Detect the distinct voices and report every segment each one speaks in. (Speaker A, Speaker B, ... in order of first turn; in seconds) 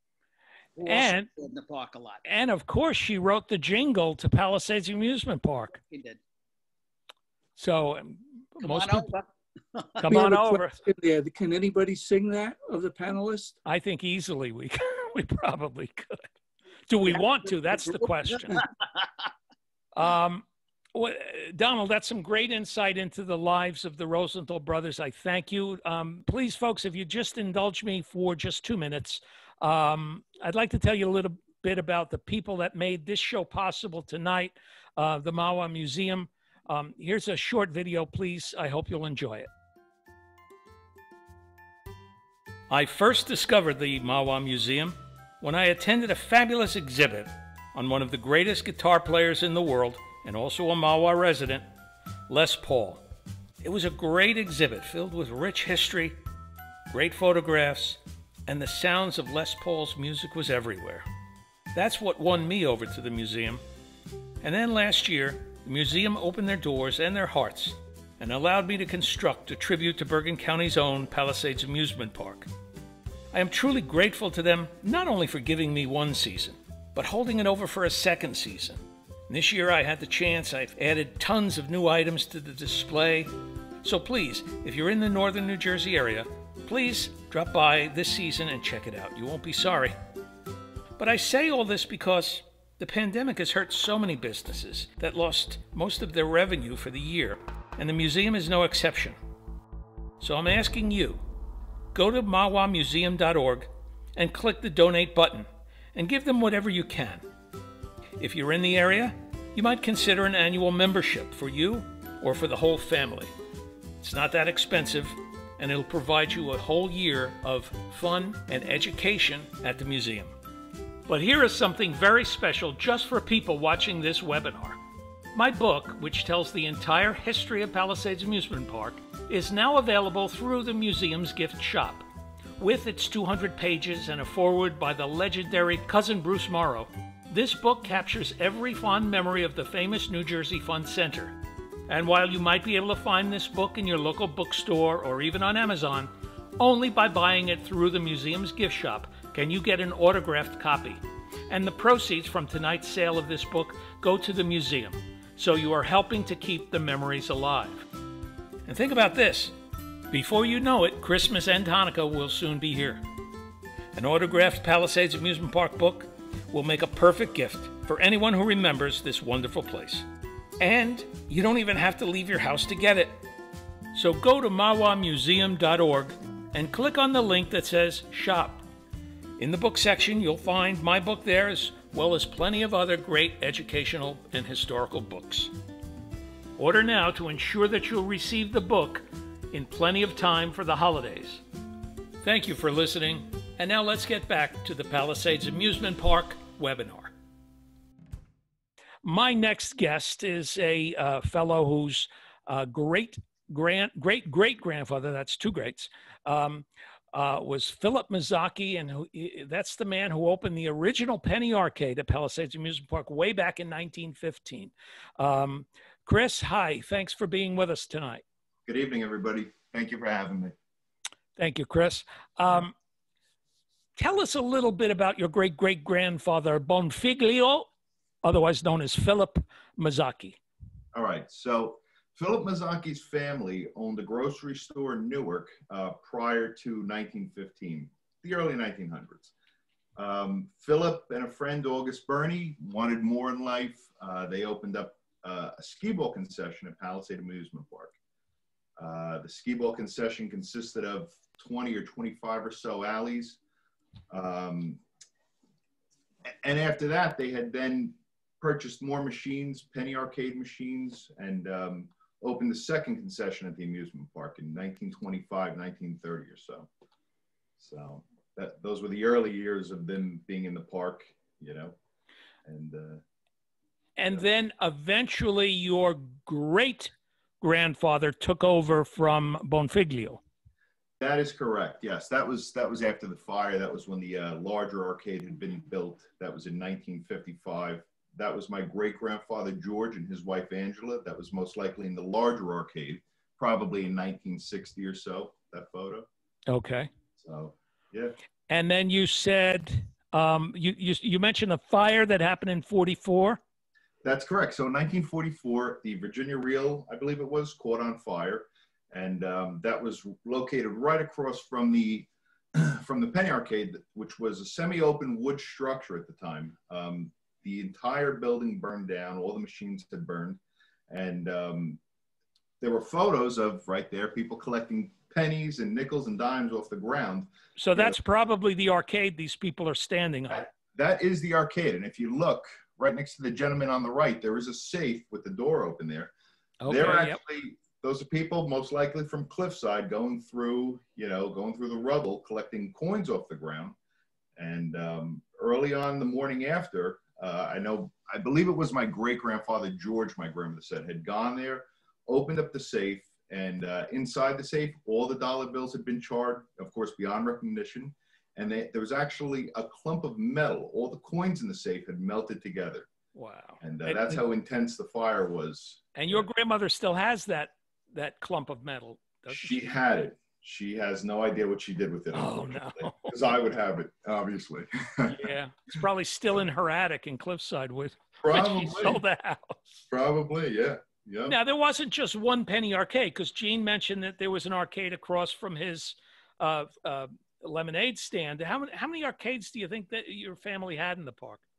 Speaker A: 0.8-2.2, 5.7-6.2, 8.6-10.2, 17.8-19.0
Speaker B: 0.8-1.3, 2.2-5.8, 7.6-9.1, 10.0-10.8, 13.7-16.2, 16.9-18.6, 20.0-20.4, 20.9-39.5, 42.7-51.7, 52.3-53.0, 53.6-56.2, 56.9-61.1, 61.7-63.6, 64.4-72.5, 73.3-83.3, 83.8-90.0, 91.0-99.2, 100.2-101.2, 101.9-107.2, 108.2-113.3, 114.0-120.3, 121.1-124.8, 125.3-132.1, 132.6-141.4, 141.9-157.8, 158.7-159.6, 160.1-163.0, 163.9-170.1, 170.6-173.2, 173.9-178.6, 179.4-185.5, 186.6-191.4, 192.2-197.1, 199.0-218.2, 221.4-222.7, 224.0-227.7, 228.2-230.4, 274.0-280.2, 296.5-296.9, 298.5-303.4, 327.6-330.5, 336.6-337.2, 363.1-364.2, 365.9-369.6, 372.1-373.1, 375.1-379.6, 381.3-391.4
Speaker C: 10.1-13.6
Speaker D: 218.7-220.5, 230.9-239.3, 240.0-247.9, 248.8-253.4, 254.1-254.8, 256.4-266.7, 267.6-271.8, 272.5-273.0, 281.0-296.1, 297.2-298.1, 304.0-321.8, 322.6-328.0, 330.3-336.1, 336.7-343.8, 344.4-362.9, 363.6-365.9, 369.3-375.2, 378.2-379.0, 379.9-381.4